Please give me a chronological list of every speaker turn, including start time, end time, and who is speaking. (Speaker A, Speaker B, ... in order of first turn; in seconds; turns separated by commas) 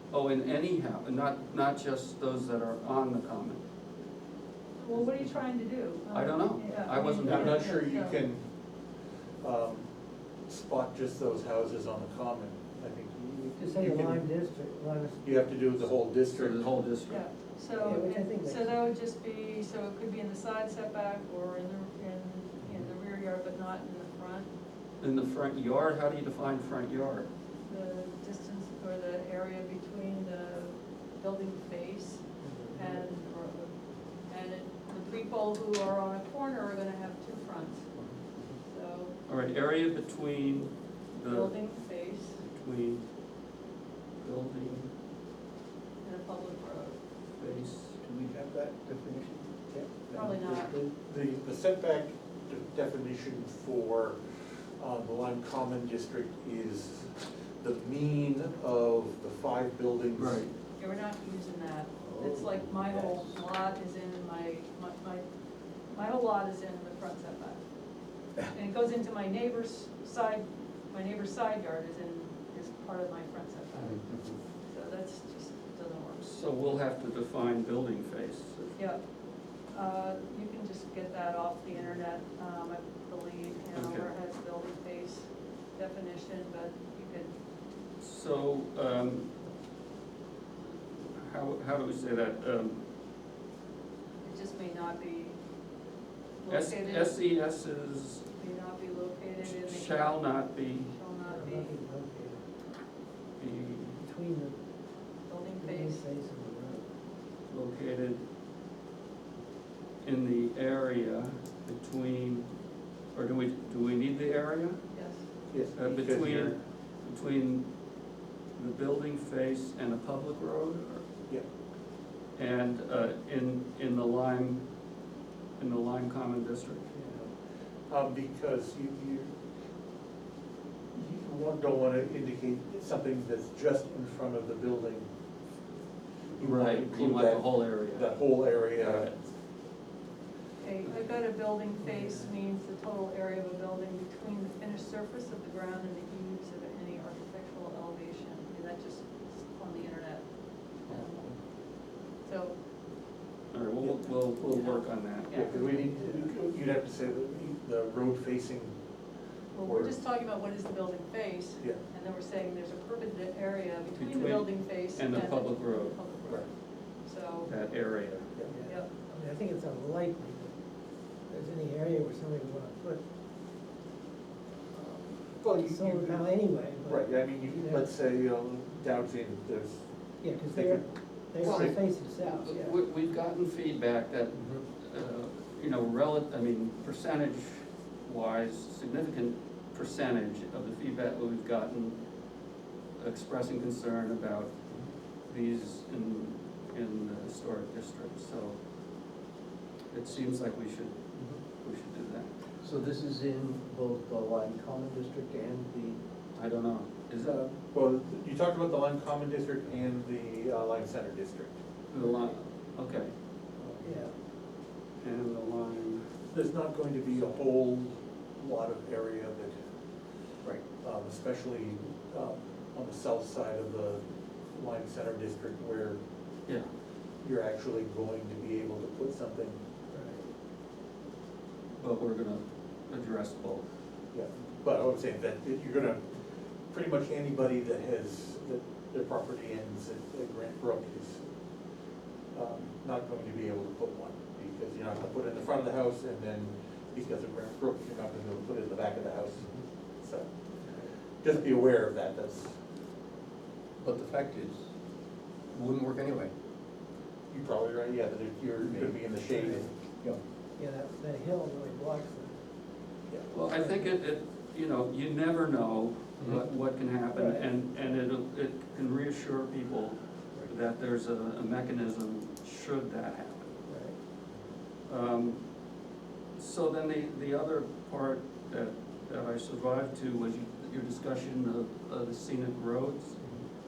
Speaker A: 0.1-3.6, Speaker B: 4.8-8.2, Speaker A: 6.1-7.7, Speaker C: 7.2-8.4, Speaker C: 9.4-9.9, Speaker C: 10.5-14.2, Speaker D: 13.6-15.2, Speaker C: 15.2-16.9, Speaker A: 16.3-17.2, Speaker B: 17.1-24.5, Speaker C: 17.7-18.0, Speaker D: 17.7-18.7, Speaker A: 25.0-27.3, Speaker B: 27.6-32.2, Speaker D: 32.4-33.0, Speaker B: 32.7-33.7, Speaker B: 34.3-37.8, Speaker B: 38.6-39.1, Speaker A: 39.3-41.6, Speaker B: 41.2-42.4, Speaker A: 42.4-43.0, Speaker A: 44.2-44.9, Speaker B: 46.0-47.0, Speaker A: 47.4-47.9, Speaker E: 48.0-49.5, Speaker C: 49.7-54.2, Speaker B: 50.1-50.7, Speaker E: 50.5-50.9, Speaker C: 54.8-60.4, Speaker A: 60.1-60.5, Speaker B: 60.8-65.2, Speaker E: 62.2-63.1, Speaker B: 65.9-67.6, Speaker B: 68.5-74.1, Speaker B: 74.6-76.3, Speaker A: 76.2-78.8, Speaker B: 78.8-79.0, Speaker B: 79.7-87.3, Speaker A: 83.7-84.1, Speaker A: 88.0-89.3, Speaker A: 91.1-92.8, Speaker B: 94.2-95.4, Speaker B: 96.4-97.2, Speaker A: 96.5-98.2, Speaker B: 98.4-101.7, Speaker A: 99.4-100.9, Speaker D: 101.3-102.4, Speaker A: 103.4-104.0, Speaker D: 103.9-104.6, Speaker B: 105.3-106.0, Speaker D: 105.6-106.8, Speaker A: 107.5-108.2, Speaker A: 110.0-112.5, Speaker A: 113.1-114.8, Speaker B: 114.9-115.2, Speaker C: 115.5-116.5, Speaker A: 115.7-117.7, Speaker A: 118.5-121.0, Speaker A: 122.3-124.6, Speaker A: 125.6-126.9, Speaker C: 126.9-127.3, Speaker C: 127.9-129.3, Speaker C: 130.9-135.1, Speaker A: 136.4-139.1, Speaker C: 136.4-139.2, Speaker B: 140.6-150.3, Speaker B: 150.8-151.3, Speaker B: 152.2-152.6, Speaker A: 153.5-155.5, Speaker B: 154.4-156.3, Speaker C: 155.3-158.7, Speaker B: 159.5-166.5, Speaker C: 159.6-159.9, Speaker A: 164.0-166.0, Speaker B: 167.0-167.5, Speaker A: 167.4-168.2, Speaker D: 168.5-170.5, Speaker D: 171.3-173.0, Speaker C: 174.8-176.3, Speaker D: 175.5-177.9, Speaker C: 176.8-179.8, Speaker D: 180.2-182.8, Speaker C: 180.5-180.8, Speaker C: 181.4-181.7, Speaker A: 181.4-192.0, Speaker A: 193.0-194.5, Speaker A: 195.3-198.6, Speaker A: 199.9-201.0, Speaker A: 201.6-202.3, Speaker E: 202.6-206.0, Speaker A: 206.3-207.4, Speaker C: 207.2-211.5, Speaker A: 211.9-213.1, Speaker C: 213.6-213.9, Speaker D: 213.8-214.1, Speaker A: 215.0-216.0, Speaker C: 216.3-219.5, Speaker C: 220.8-226.0, Speaker C: 227.2-229.6, Speaker D: 229.9-230.3, Speaker A: 231.8-233.6, Speaker C: 234.1-236.0, Speaker C: 236.7-241.2, Speaker C: 242.3-250.3, Speaker C: 251.2-252.5, Speaker E: 253.8-254.6, Speaker E: 255.5-256.3, Speaker C: 257.3-259.7, Speaker E: 258.6-258.9, Speaker D: 259.3-259.7, Speaker D: 260.6-262.4, Speaker A: 263.3-273.5, Speaker D: 263.5-264.0, Speaker D: 267.1-267.5, Speaker D: 273.7-273.9, Speaker A: 274.9-275.4, Speaker A: 276.4-283.2